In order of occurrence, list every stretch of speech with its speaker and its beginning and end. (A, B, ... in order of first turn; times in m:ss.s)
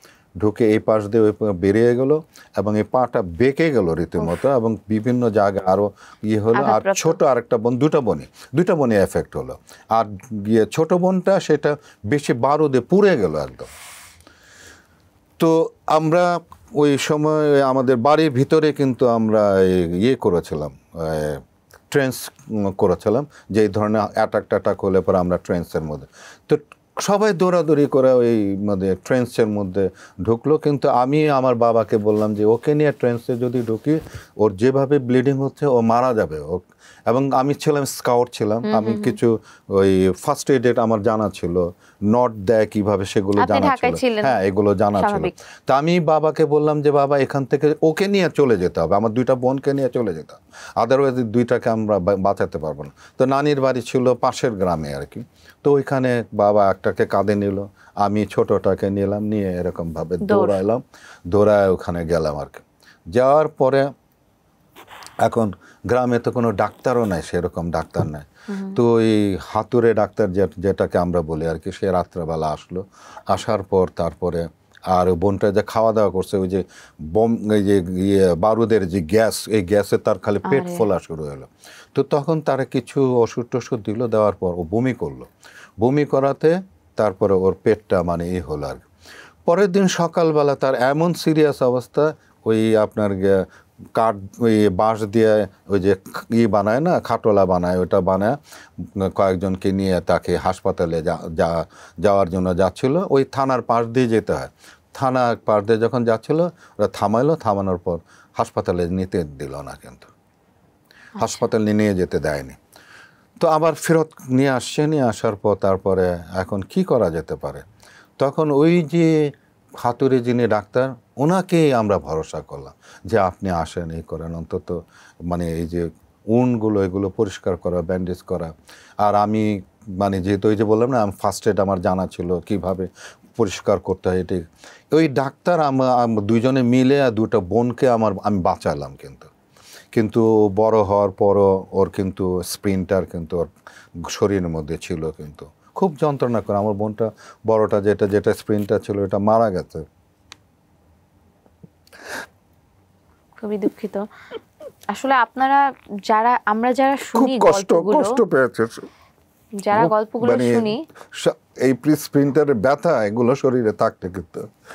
0:00.4-0:13.7 A
0:06.6-0:07.2 B
0:15.4-1:03.9 A
0:38.6-0:39.2 B
0:43.4-0:44.4 B
0:45.0-0:45.3 B
1:00.2-1:00.6 B
1:05.2-1:25.3 A
1:08.5-1:08.8 B
1:20.5-1:20.9 B
1:25.8-1:28.9 A
1:29.5-1:38.4 A
1:39.0-1:50.1 A
1:51.2-1:52.6 A
1:53.4-1:57.6 A
1:58.2-2:19.3 A
2:19.9-2:23.5 A
2:24.0-2:29.8 A
2:33.4-2:34.0 B
2:34.9-2:38.2 B
2:37.1-2:38.9 A
2:39.6-2:40.8 B
2:39.7-2:44.5 A